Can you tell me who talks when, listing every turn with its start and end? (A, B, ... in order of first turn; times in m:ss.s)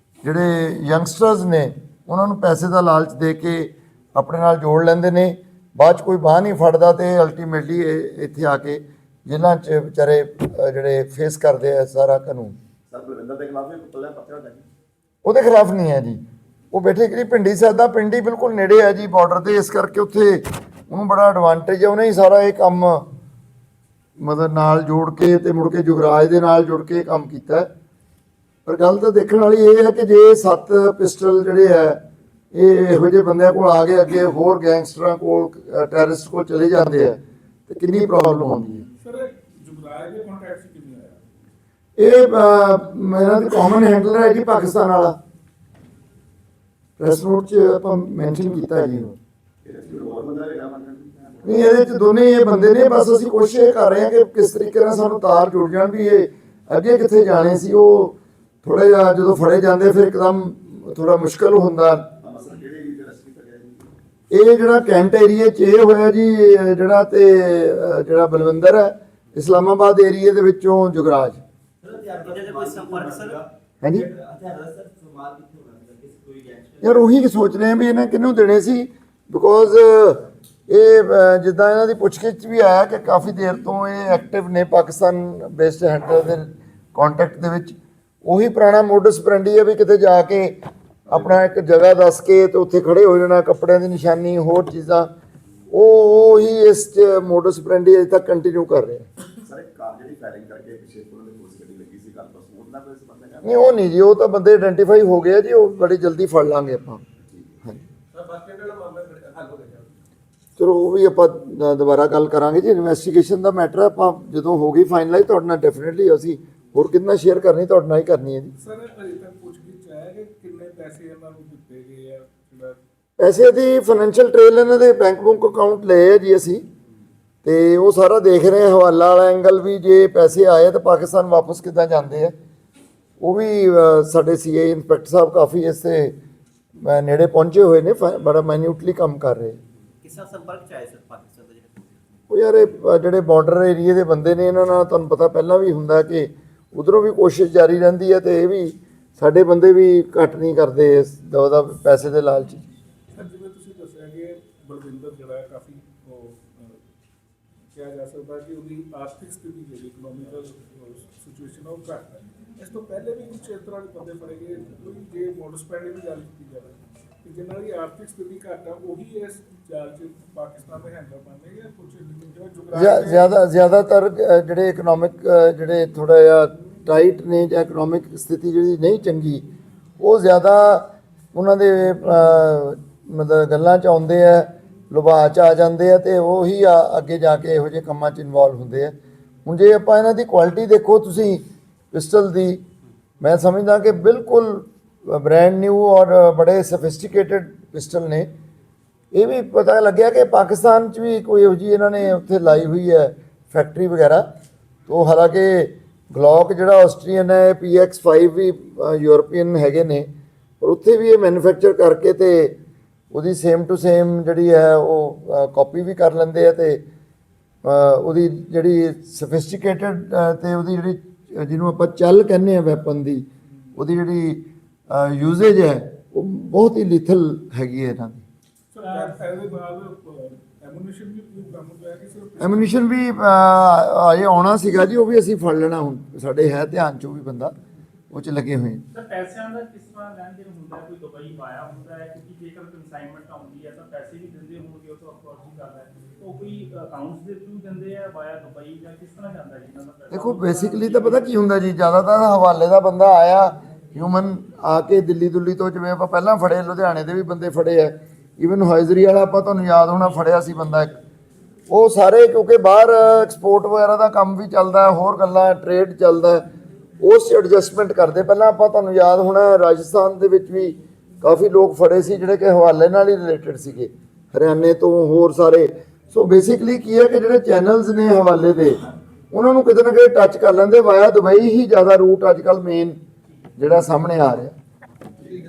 0:00.2-0:12.6 A
0:12.9-0:14.6 B
0:15.2-0:23.1 A
0:24.2-0:27.7 A
0:28.7-0:32.0 A
0:32.5-0:38.9 A
0:39.0-0:41.2 C
0:42.0-0:45.2 A
0:47.0-0:49.2 A
0:49.6-0:51.5 B
0:51.4-1:02.1 A
1:02.2-1:03.8 B
1:04.3-1:11.4 A
1:11.8-1:13.4 D
1:12.4-1:13.4 E
1:12.4-1:13.4 B
1:13.8-1:14.1 A
1:14.0-1:17.0 D
1:16.8-1:35.1 A
1:35.7-1:39.1 A
1:39.4-1:43.7 B
1:43.4-1:47.0 A
1:48.2-1:48.8 D
1:50.6-1:58.5 A
1:58.6-2:02.8 C
2:03.2-2:06.6 A
2:07.4-2:12.4 A
2:13.2-2:16.2 A
2:16.8-2:19.6 A
2:20.0-2:21.9 D
2:22.3-2:32.6 A
2:33.1-2:36.8 C
2:37.7-2:53.3 C
2:52.7-2:59.5 A
3:00.0-3:12.6 A
3:13.2-3:18.3 A
3:19.1-3:24.2 A
3:24.9-3:30.1 A
3:30.6-3:32.6 A
3:33.1-3:36.8 A
3:37.6-3:48.2 A
3:48.7-3:52.8 C
3:48.8-3:49.2 E
3:52.4-3:57.6 A
3:58.1-3:58.8 A
3:58.9-4:11.4 E
4:10.1-4:21.0 A
4:21.7-4:26.4 A
4:27.0-4:38.8 A
4:39.3-4:43.0 A
4:43.6-4:44.6 A